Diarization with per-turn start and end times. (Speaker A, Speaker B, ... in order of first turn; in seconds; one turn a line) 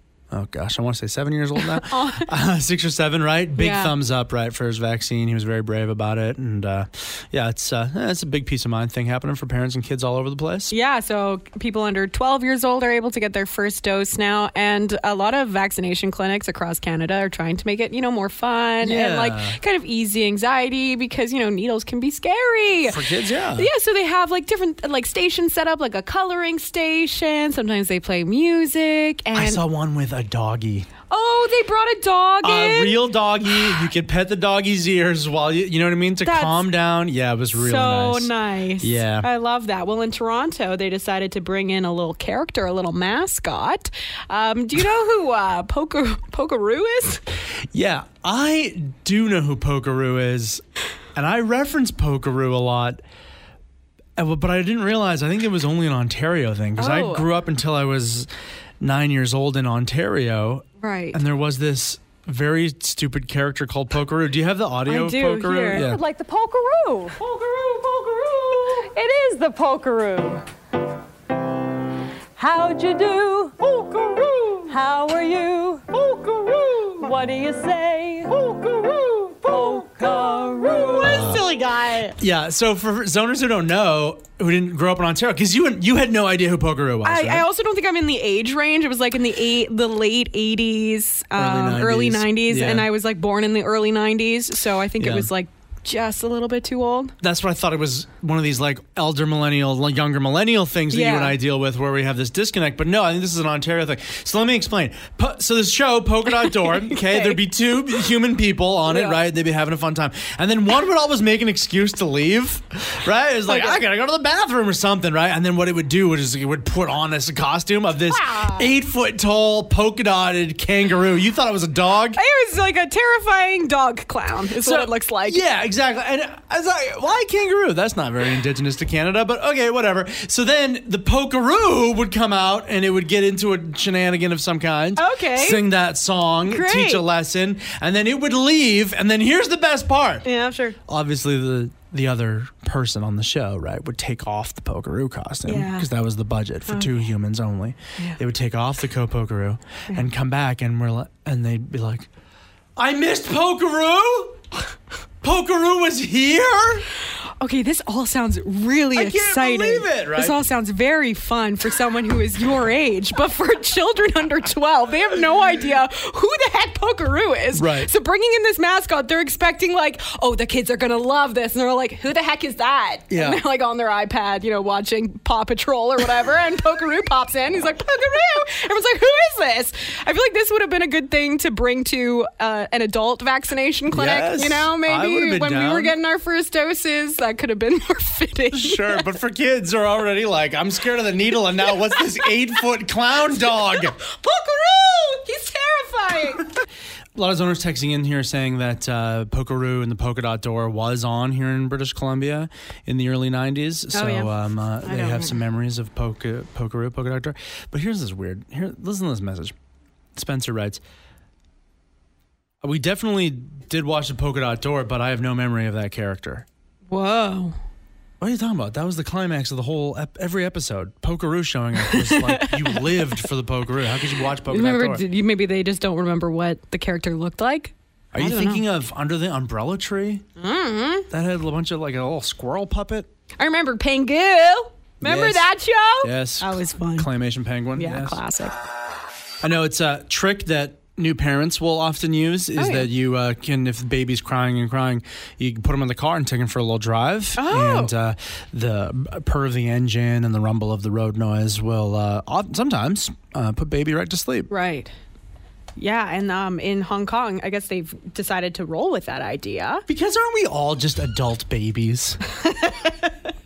Speaker A: 0.3-10.7
Speaker B: 1.6-2.3
Speaker B: 3.6-3.9
Speaker B: 10.7-29.6
Speaker A: 18.8-19.6
Speaker A: 22.9-23.7
Speaker A: 29.3-30.9
Speaker B: 31.1-33.1
Speaker A: 32.4-39.3
Speaker B: 36.2-36.6
Speaker B: 37.5-47.2
Speaker A: 47.7-50.6
Speaker A: 51.1-53.0
Speaker A: 54.2-58.3
Speaker B: 56.8-57.3
Speaker A: 58.8-66.0
Speaker B: 60.8-61.2
Speaker B: 64.8-65.9
Speaker C: 65.7-70.4
Speaker C: 72.4-82.1
Speaker A: 81.0-81.5
Speaker A: 82.2-87.5
Speaker B: 87.0-97.1
Speaker A: 91.3-92.9
Speaker A: 95.0-95.3
Speaker A: 97.2-122.2
Speaker B: 100.9-101.4
Speaker B: 106.3-107.4
Speaker B: 108.9-109.2
Speaker B: 113.5-113.8
Speaker B: 118.1-118.7
Speaker B: 122.2-125.4
Speaker A: 124.6-140.2
Speaker B: 134.9-135.7
Speaker B: 136.4-137.0
Speaker B: 140.2-140.8
Speaker A: 140.9-152.1
Speaker B: 145.4-145.9
Speaker B: 146.7-146.9
Speaker A: 152.8-154.4
Speaker A: 155.2-156.8
Speaker B: 157.4-189.1
Speaker A: 158.9-160.4
Speaker A: 167.5-167.9
Speaker A: 173.1-173.4
Speaker A: 183.9-185.9
Speaker A: 188.5-193.9
Speaker B: 193.4-196.5
Speaker A: 197.1-209.5
Speaker B: 203.9-205.4
Speaker A: 210.1-210.8
Speaker A: 212.6-216.4
Speaker B: 216.9-217.6
Speaker A: 218.2-225.0
Speaker B: 221.8-223.2
Speaker B: 224.4-228.6
Speaker A: 228.1-230.2
Speaker B: 230.4-231.1
Speaker A: 231.1-233.1
Speaker B: 233.4-237.1
Speaker A: 235.0-235.5
Speaker A: 236.0-238.2
Speaker B: 237.7-238.5
Speaker A: 239.4-254.5
Speaker B: 242.6-242.9
Speaker B: 247.3-247.9
Speaker B: 254.5-254.9
Speaker B: 255.8-259.8
Speaker A: 259.9-262.2
Speaker B: 262.4-263.1